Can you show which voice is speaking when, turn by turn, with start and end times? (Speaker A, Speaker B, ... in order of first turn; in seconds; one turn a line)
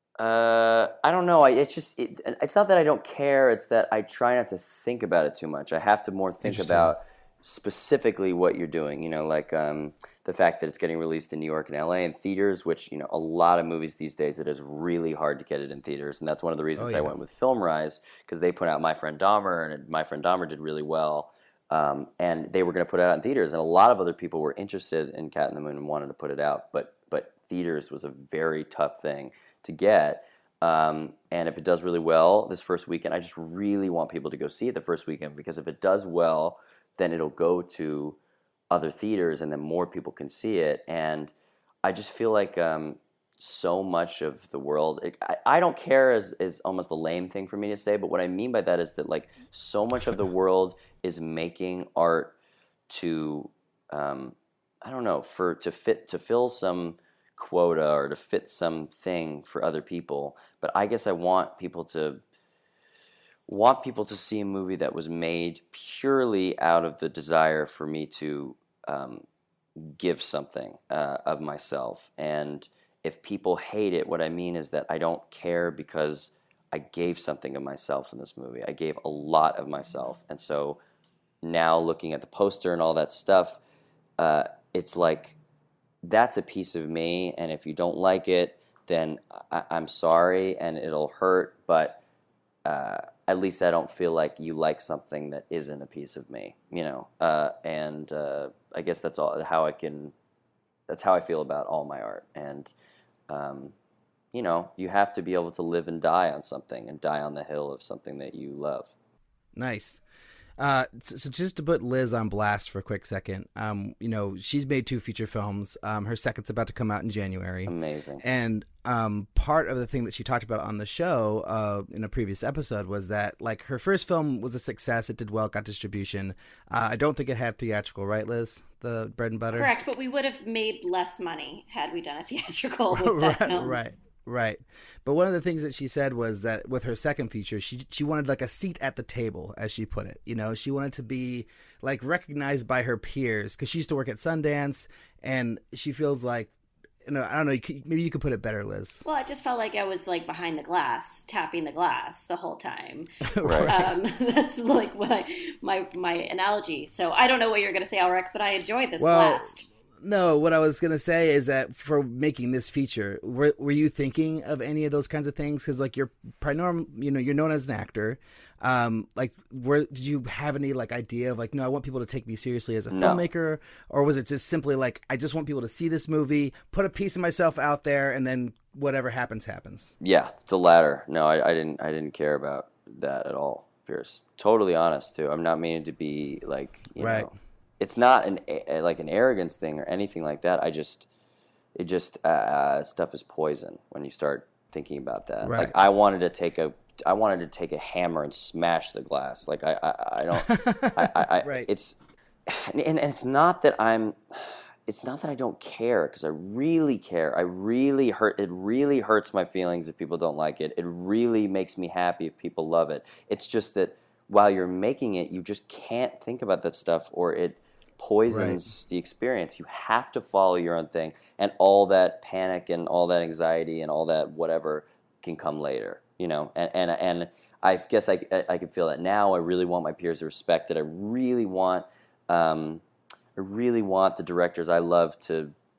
Speaker A: 0.2-38.2
Speaker B: 6.4-6.9
Speaker B: 16.7-17.2
Speaker A: 38.7-41.3
Speaker A: 41.8-52.3
Speaker A: 52.9-62.2
Speaker A: 63.5-69.2
Speaker A: 69.8-80.8
Speaker A: 81.4-83.6
Speaker A: 84.2-85.4
Speaker A: 86.0-92.0
Speaker A: 92.6-100.1
Speaker A: 100.9-102.7
Speaker A: 103.3-103.7
Speaker A: 104.3-108.9
Speaker B: 109.5-110.0
Speaker B: 110.6-129.7
Speaker A: 117.7-118.2
Speaker C: 129.5-133.8
Speaker B: 132.9-146.5
Speaker B: 147.0-149.0
Speaker C: 149.0-153.1
Speaker B: 153.3-153.9
Speaker A: 153.4-153.7
Speaker C: 153.6-159.6
Speaker B: 159.0-159.5
Speaker B: 160.0-179.9
Speaker A: 172.9-173.2
Speaker A: 180.0-191.1
Speaker B: 187.0-187.3
Speaker A: 191.7-232.8
Speaker B: 195.4-195.7
Speaker B: 200.4-201.7
Speaker B: 218.3-218.7
Speaker A: 233.3-235.5